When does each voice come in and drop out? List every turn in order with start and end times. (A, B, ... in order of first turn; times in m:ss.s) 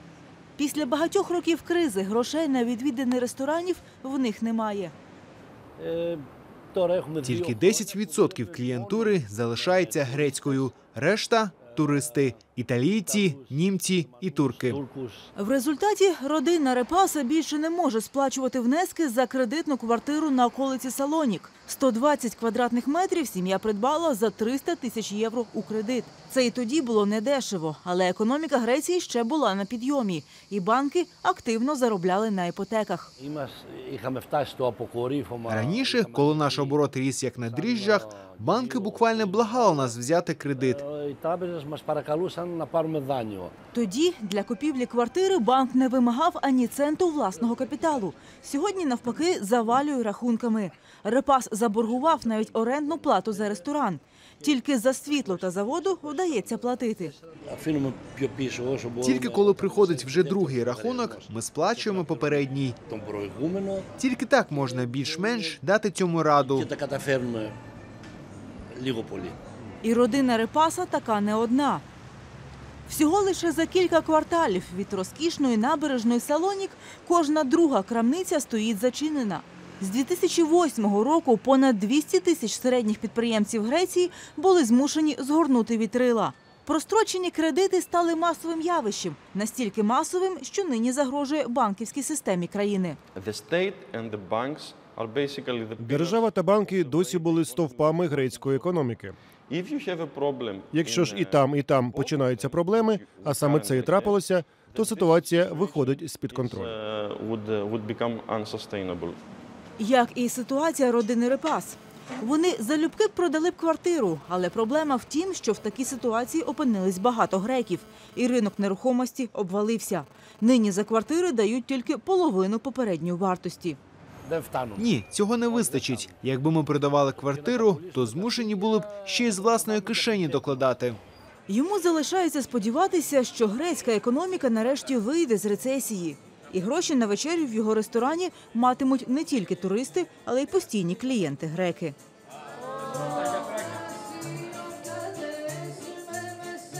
0:00.6-0:04.9 A
0:05.8-0:10.8 B
0:07.2-0:14.8 C
0:11.6-0:15.3 B
0:15.4-0:33.1 A
0:33.2-0:36.8 B
0:35.5-0:40.8 C
0:37.4-0:40.0 B
0:40.5-0:43.5 B
0:43.7-0:57.1 A
0:47.4-0:48.1 B
0:51.8-0:53.6 B
0:54.4-1:03.9 B
0:59.0-1:02.8 C
1:04.0-1:06.7 C
1:04.4-1:05.6 B
1:06.4-1:07.5 B
1:08.7-1:09.4 B
1:09.8-1:11.8 A
1:12.9-1:33.0 A
1:33.1-1:38.7 D
1:35.8-1:39.2 E
1:38.1-1:38.6 B
1:39.5-1:44.2 D
1:40.7-1:46.8 E
1:44.6-1:46.4 B
1:46.3-1:49.2 D
1:49.8-2:03.8 A
2:04.2-2:04.9 B
2:04.8-2:11.0 C
2:05.5-2:06.2 B
2:07.1-2:10.7 B
2:11.5-2:22.0 A
2:25.5-2:26.4 A